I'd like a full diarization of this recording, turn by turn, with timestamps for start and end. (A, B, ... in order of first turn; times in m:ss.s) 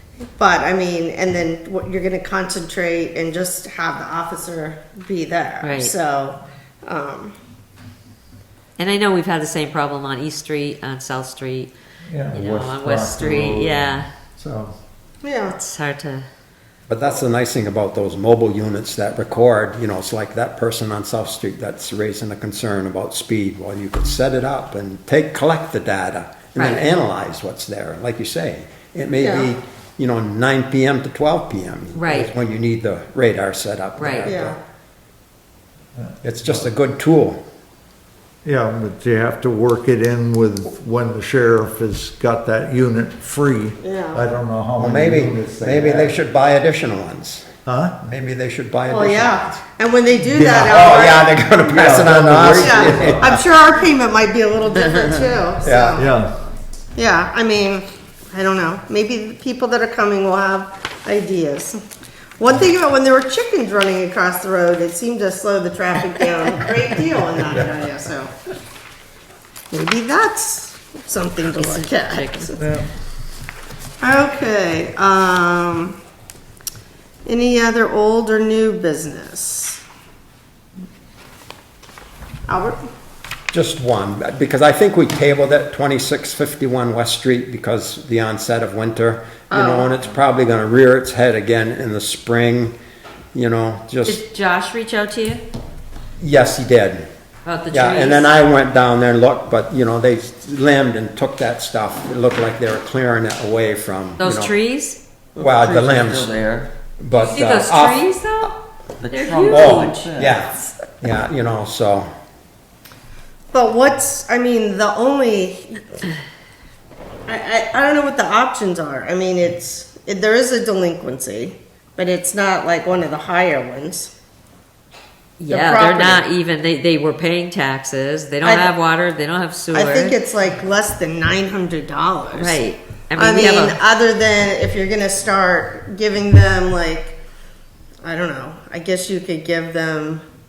0:00.2-0:07.3 A
0:05.6-0:05.9 B
0:08.8-0:11.7 B
0:12.1-0:14.8 C
0:12.3-0:14.1 B
0:15.2-0:15.6 A
0:15.5-0:16.3 B
0:16.9-0:34.6 D
0:26.6-0:27.0 B
0:29.2-0:29.6 A
0:32.0-0:32.3 B
0:34.0-0:34.3 B
0:34.2-0:34.6 A
0:36.0-0:36.6 C
0:36.2-0:37.4 D
0:38.4-0:46.2 C
0:43.8-0:44.2 A
0:44.8-0:47.5 D
0:47.7-0:48.0 C
0:48.0-0:49.6 D
0:48.9-0:51.3 A
0:50.2-0:53.4 C
0:50.7-0:53.4 D
0:52.6-0:56.1 A
0:55.6-0:56.0 D
0:56.0-0:56.3 C
0:57.0-1:01.8 A
1:02.4-1:08.3 A
1:09.7-1:12.6 A
1:11.5-1:12.6 B
1:12.6-1:12.9 C
1:14.0-1:16.0 A
1:17.2-1:19.8 A
1:22.5-1:22.8 A
1:23.5-1:32.7 D
1:29.5-1:29.9 A
1:33.3-1:34.2 D
1:34.0-1:35.4 B
1:36.2-1:37.0 D
1:37.4-1:38.3 B
1:37.7-1:44.5 D
1:44.2-1:45.0 B
1:45.4-1:46.7 E
1:45.4-1:46.3 D
1:47.0-1:48.0 D
1:47.1-1:48.6 B
1:49.0-1:50.4 E
1:49.1-1:50.1 B
1:49.5-1:52.1 D
1:53.5-1:56.0 A
1:57.3-2:04.1 A
2:05.4-2:10.2 B
2:05.5-2:06.2 A
2:08.4-2:08.7 A
2:09.7-2:12.6 A
2:12.3-2:13.8 B
2:13.2-2:17.2 A
2:18.0-2:20.2 A